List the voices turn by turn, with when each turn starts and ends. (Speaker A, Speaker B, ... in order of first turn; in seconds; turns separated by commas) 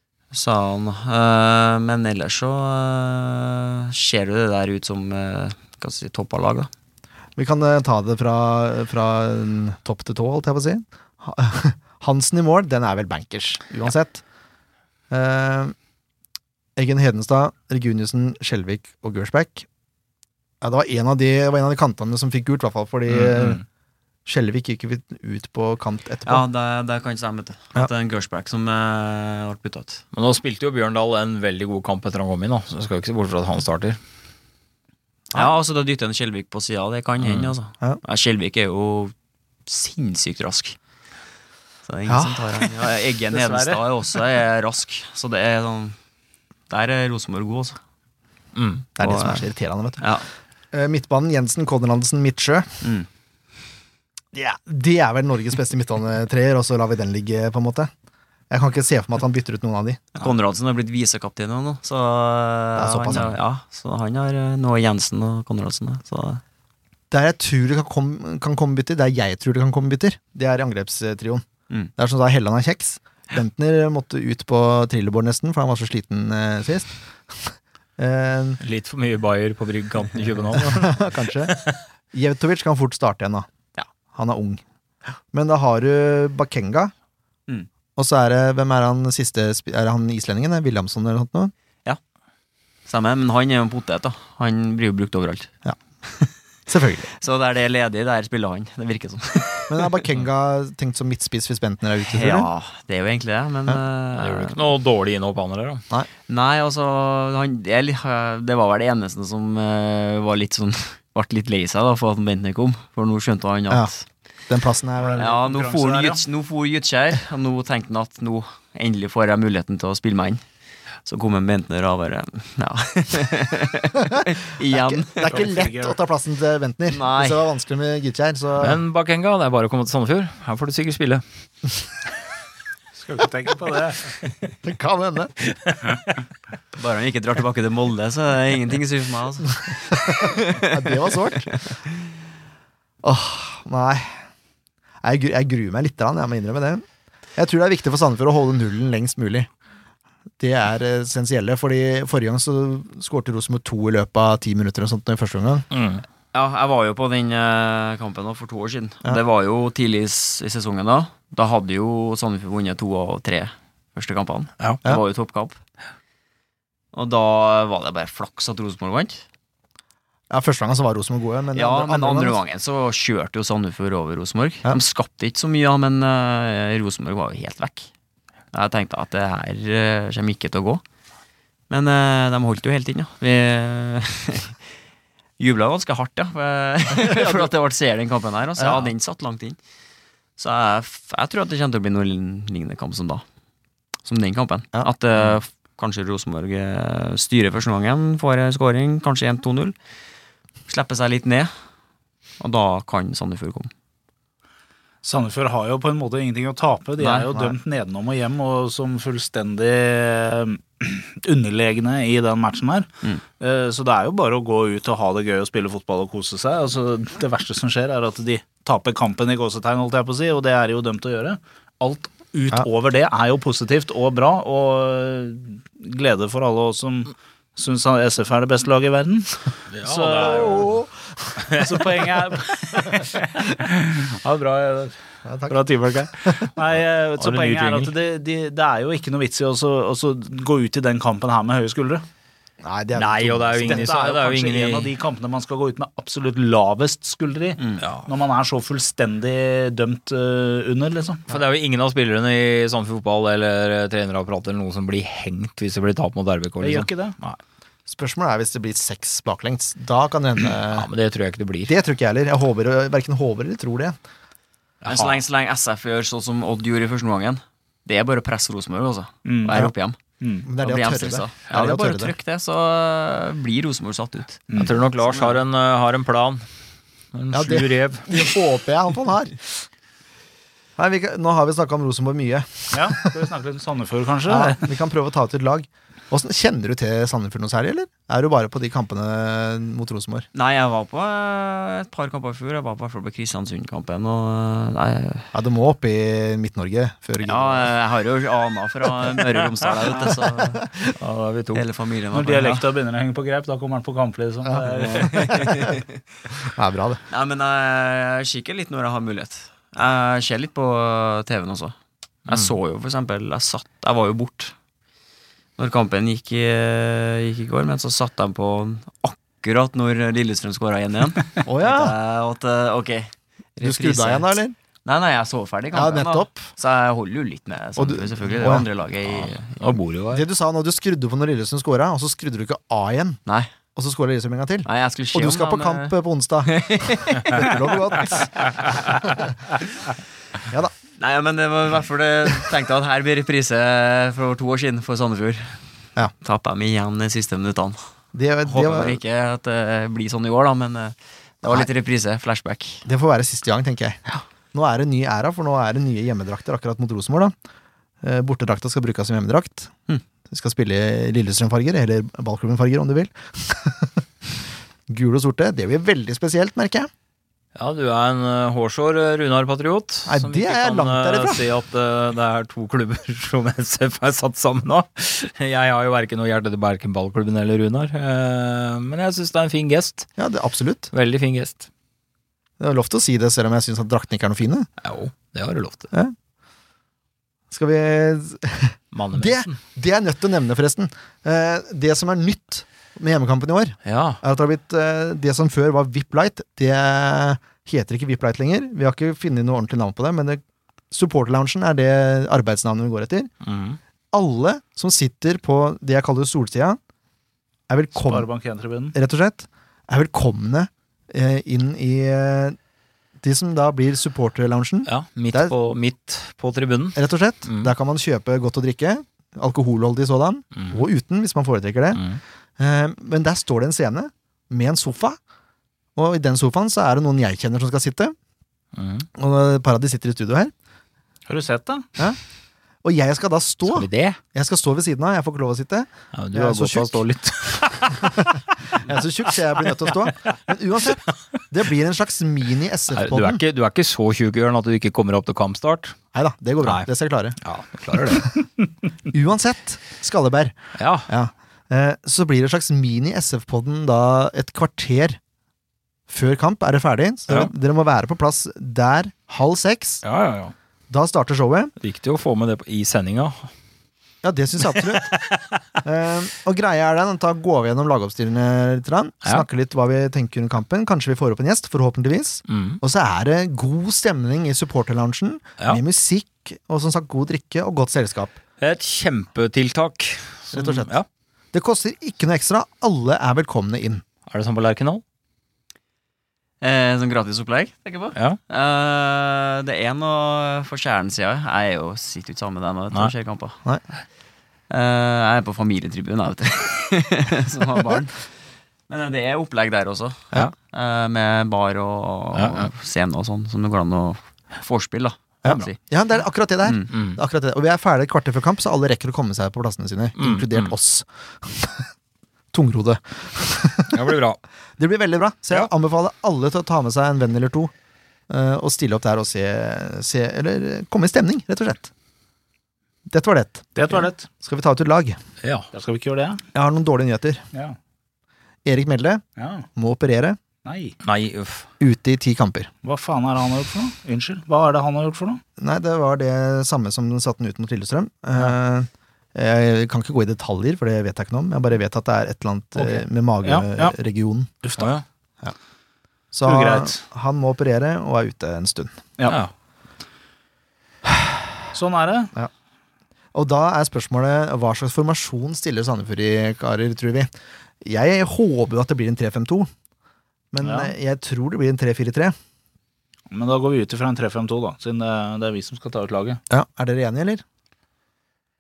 Speaker A: 0.3-6.7, Speaker B: 7.4-14.2, Speaker B: 15.1-15.7, Speaker B: 16.8-19.7, Speaker B: 20.6-23.6, Speaker B: 24.3-26.4, Speaker A: 26.3-30.0, Speaker C: 30.1-34.0, Speaker A: 35.3-39.1, Speaker C: 37.2-37.5, Speaker A: 39.7-40.8, Speaker A: 41.9-46.0, Speaker B: 42.1-42.6, Speaker D: 43.3-43.8, Speaker A: 46.7-47.8, Speaker C: 48.6-48.9, Speaker B: 49.0-50.0, Speaker A: 49.0-49.5, Speaker A: 50.0-50.3, Speaker B: 50.7-52.7, Speaker A: 52.8-53.1, Speaker B: 54.3-57.9, Speaker B: 58.5-60.0, Speaker A: 60.2-66.4, Speaker B: 62.8-63.4, Speaker B: 67.1-71.5, Speaker B: 72.0-78.6, Speaker C: 78.6-81.7, Speaker B: 80.6-81.6, Speaker B: 82.1-83.5, Speaker B: 84.1-84.6, Speaker B: 85.3-86.9, Speaker B: 88.0-91.5, Speaker A: 92.9-95.5, Speaker B: 96.7-97.1, Speaker A: 97.1-100.0, Speaker B: 99.7-102.5, Speaker A: 102.1-104.6, Speaker C: 104.2-105.8, Speaker A: 106.3-114.0, Speaker B: 114.5-115.3, Speaker D: 115.0-116.2, Speaker A: 115.2-120.4, Speaker A: 121.0-125.5, Speaker B: 124.8-128.8, Speaker D: 125.2-126.0, Speaker A: 126.9-127.5, Speaker C: 128.6-131.2, Speaker D: 133.0-134.2, Speaker B: 134.6-135.3, Speaker A: 136.8-141.8, Speaker B: 140.6-141.6, Speaker B: 143.0-144.2, Speaker B: 145.0-146.8, Speaker B: 147.4-149.5, Speaker B: 150.4-155.7, Speaker C: 155.7-156.0, Speaker A: 156.3-165.6, Speaker A: 166.9-169.2, Speaker B: 170.3-172.4, Speaker A: 171.5-177.9, Speaker A: 178.5-180.8, Speaker A: 181.7-184.6, Speaker A: 185.4-189.6, Speaker A: 190.4-193.2, Speaker A: 194.1-199.8, Speaker A: 200.7-201.5, Speaker A: 202.4-203.7, Speaker D: 205.0-212.9, Speaker A: 207.0-207.5, Speaker D: 213.4-230.8, Speaker C: 229.7-230.7, Speaker B: 230.6-230.9, Speaker D: 231.6-234.9, Speaker B: 235.2-235.6, Speaker D: 235.5-242.0, Speaker C: 237.2-237.9, Speaker B: 242.6-243.9, Speaker C: 242.9-244.9, Speaker D: 243.6-251.2, Speaker A: 247.6-247.8, Speaker C: 247.8-248.1, Speaker C: 251.3-257.4, Speaker D: 256.6-257.2, Speaker B: 257.9-260.9, Speaker C: 260.7-261.7, Speaker B: 261.7-264.0, Speaker C: 264.8-265.2, Speaker A: 264.9-270.0, Speaker D: 269.3-269.6, Speaker D: 270.2-270.5, Speaker B: 270.4-272.1, Speaker A: 270.6-274.4, Speaker D: 274.5-274.8, Speaker C: 274.6-276.4, Speaker A: 275.0-275.4, Speaker C: 277.1-278.1, Speaker B: 277.3-279.4, Speaker B: 280.8-283.1, Speaker D: 282.7-284.6, Speaker B: 284.3-290.3, Speaker A: 290.3-295.3, Speaker B: 295.3-297.7, Speaker A: 297.2-300.6, Speaker C: 301.0-301.6, Speaker A: 301.5-302.6, Speaker D: 302.1-305.4, Speaker A: 305.0-306.0, Speaker B: 305.3-305.6, Speaker B: 306.6-307.0, Speaker A: 307.1-311.8, Speaker A: 312.3-314.5, Speaker A: 315.6-329.7, Speaker B: 321.5-321.9, Speaker B: 323.6-324.6, Speaker B: 325.7-326.5, Speaker B: 327.8-328.7, Speaker C: 329.1-330.2, Speaker B: 330.1-333.2, Speaker A: 333.3-333.5, Speaker B: 333.8-336.6, Speaker A: 334.6-337.8, Speaker B: 337.2-338.3, Speaker A: 341.0-345.6, Speaker A: 346.2-347.8, Speaker B: 348.1-349.0, Speaker A: 348.4-352.8, Speaker B: 352.9-354.0, Speaker B: 354.5-357.3, Speaker B: 358.0-359.7, Speaker B: 360.3-363.9, Speaker B: 364.9-366.9, Speaker C: 367.6-380.1, Speaker B: 370.1-371.4, Speaker B: 380.2-380.9, Speaker C: 380.9-381.7, Speaker B: 382.6-384.7, Speaker C: 384.8-385.9, Speaker B: 387.5-400.4, Speaker C: 388.9-389.6, Speaker C: 393.9-394.2, Speaker B: 400.9-403.3, Speaker C: 403.4-403.8, Speaker B: 404.1-406.8, Speaker B: 407.7-408.3, Speaker D: 407.9-408.9, Speaker B: 408.9-412.6, Speaker B: 413.2-415.5, Speaker C: 414.9-417.7, Speaker B: 416.9-422.0, Speaker B: 422.6-425.2, Speaker B: 426.0-428.1, Speaker C: 428.8-429.1, Speaker B: 429.2-430.5, Speaker D: 431.3-431.9, Speaker B: 432.8-437.0, Speaker C: 433.7-434.2, Speaker C: 436.1-438.3, Speaker B: 438.0-443.4, Speaker C: 442.9-446.0, Speaker B: 446.1-447.4, Speaker C: 446.6-446.9, Speaker C: 447.4-448.3, Speaker B: 449.1-450.6, Speaker C: 450.8-451.1, Speaker B: 451.1-455.2, Speaker B: 456.1-460.0, Speaker C: 460.0-460.5, Speaker B: 460.9-461.7, Speaker C: 461.8-463.5, Speaker B: 464.2-465.2, Speaker C: 464.8-465.3, Speaker B: 465.8-478.4, Speaker C: 472.5-472.8, Speaker C: 478.6-481.1, Speaker B: 480.5-480.9, Speaker B: 481.5-484.0, Speaker C: 484.3-485.0, Speaker A: 486.6-493.6, Speaker A: 494.7-498.3, Speaker A: 498.9-505.8, Speaker C: 502.3-502.7, Speaker B: 505.4-511.8, Speaker C: 506.9-507.2, Speaker C: 510.2-510.7, Speaker B: 512.5-513.9, Speaker C: 513.9-514.4, Speaker B: 514.8-517.7, Speaker B: 518.3-521.9, Speaker B: 523.1-523.7, Speaker D: 523.8-524.3, Speaker B: 524.4-525.2, Speaker C: 525.4-525.7, Speaker D: 525.7-526.4, Speaker B: 526.5-527.4, Speaker B: 528.6-529.2, Speaker D: 529.4-529.7, Speaker B: 529.8-530.4, Speaker D: 530.6-531.0, Speaker C: 531.0-531.7, Speaker B: 531.8-532.7, Speaker D: 532.8-535.4, Speaker B: 535.6-544.5, Speaker D: 542.8-543.9, Speaker D: 544.6-544.9, Speaker C: 544.8-545.0, Speaker B: 546.3-549.0, Speaker D: 546.5-547.0, Speaker C: 549.3-549.5, Speaker D: 551.7-552.3, Speaker B: 553.3-559.7, Speaker B: 560.5-562.4, Speaker D: 560.6-560.9, Speaker D: 563.3-566.4, Speaker B: 566.5-567.4